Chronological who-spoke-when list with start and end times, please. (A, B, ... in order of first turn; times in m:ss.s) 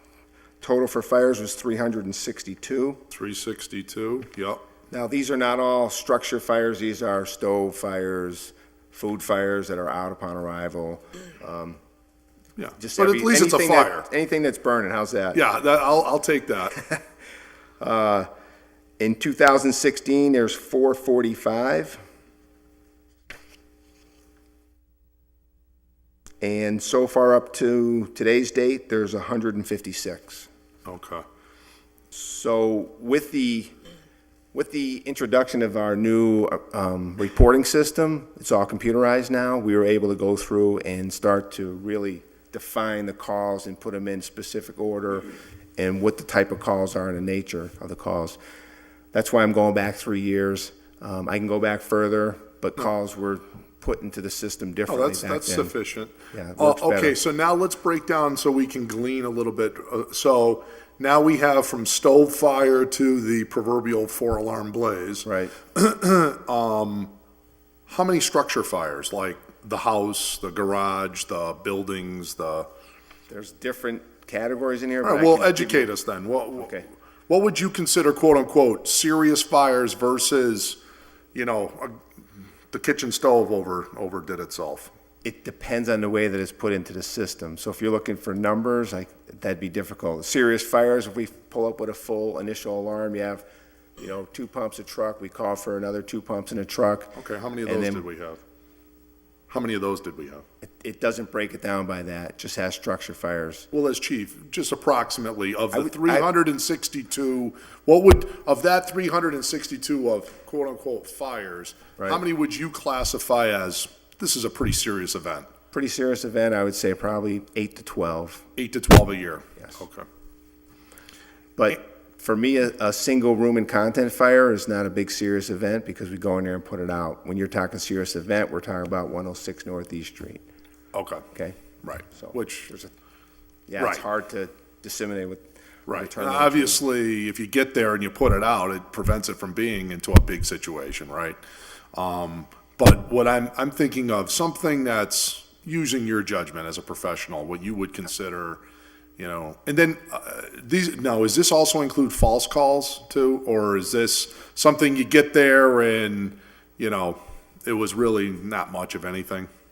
0:00.6-0:03.0 A
0:03.1-0:04.6 B
0:04.9-0:11.8 A
0:12.6-0:14.1 B
0:12.8-0:15.4 A
0:15.3-0:16.8 B
0:17.8-0:18.3 A
0:19.0-0:22.0 A
0:26.4-0:30.5 A
0:30.8-0:31.2 B
0:32.1-0:33.7 A
0:34.5-0:48.4 A
0:49.1-0:55.7 A
0:54.9-1:07.1 B
0:56.3-0:57.2 A
1:05.3-1:05.5 A
1:07.9-1:12.7 B
1:13.3-1:15.9 A
1:15.0-1:20.8 B
1:16.6-1:16.9 A
1:21.3-1:22.0 B
1:22.7-1:24.9 B
1:25.2-1:33.4 A
1:34.0-1:38.0 A
1:37.2-1:38.4 B
1:39.5-1:40.4 B
1:40.6-1:43.7 A
1:43.7-1:55.5 B
1:45.7-1:46.3 A
1:55.7-1:58.4 A
1:58.6-2:00.1 B
2:01.6-2:10.4 A
2:10.9-2:11.3 B
2:11.3-2:11.6 A
2:11.8-2:12.7 B
2:12.1-2:12.9 A
2:13.7-2:16.8 A
2:13.8-2:14.0 B
2:15.9-2:21.4 B
2:21.9-2:28.6 B
2:29.2-2:39.5 B